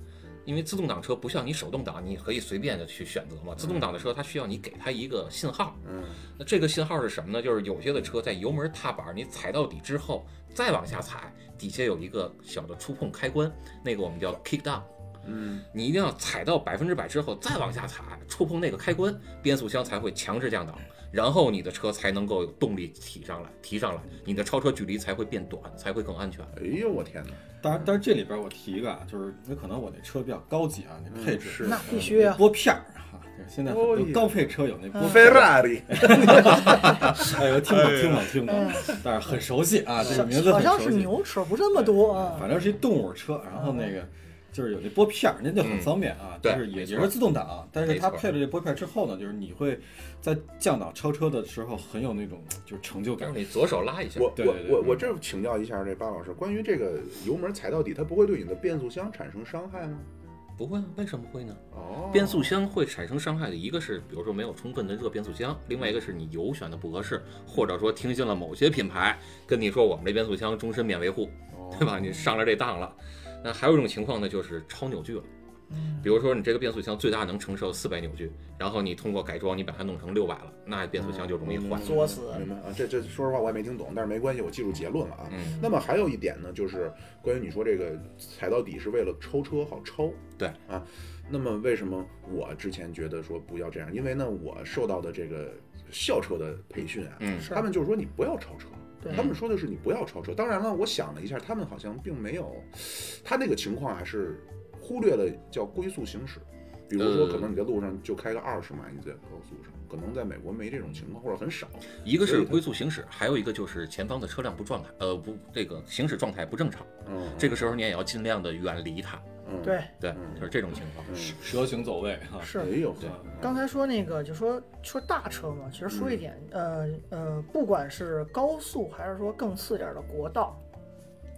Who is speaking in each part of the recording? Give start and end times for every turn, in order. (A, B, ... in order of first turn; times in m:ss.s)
0:00.4-0:05.8 A
0:03.6-0:04.0 B
0:05.8-0:06.2 B
0:06.4-0:14.9 A
0:15.2-0:15.6 B
0:15.7-0:26.5 A
0:26.5-0:27.4 B
0:27.6-0:41.2 C
0:31.1-0:32.1 B
0:31.6-0:32.4 D
0:33.6-0:37.6 B
0:35.0-0:35.2 D
0:36.7-0:37.1 A
0:37.6-0:38.3 A
0:38.4-0:38.9 D
0:40.0-0:42.5 D
0:41.7-0:53.5 C
0:43.6-0:43.9 D
0:45.6-0:47.2 A
0:47.8-0:48.3 A
0:53.2-0:54.4 A
0:54.1-1:00.1 B
0:54.4-0:55.1 C
1:00.6-1:15.3 A
1:01.7-1:02.6 B
1:11.5-1:12.1 B
1:15.7-1:16.1 D
1:16.0-1:22.4 A
1:20.9-1:52.6 B
1:21.8-1:22.4 D
1:25.3-1:25.6 A
1:37.2-1:37.6 A
1:39.0-1:39.3 D
1:39.1-1:39.4 A
1:47.0-1:47.5 A
1:52.0-1:59.2 A
1:57.0-1:57.7 B
1:59.4-2:00.4 B
1:59.6-1:59.9 D
2:00.0-2:01.2 A
2:01.0-2:01.4 B
2:01.1-2:03.3 C
2:02.4-2:02.7 D
2:02.5-2:03.6 B
2:03.4-2:10.6 D
2:05.9-2:06.2 B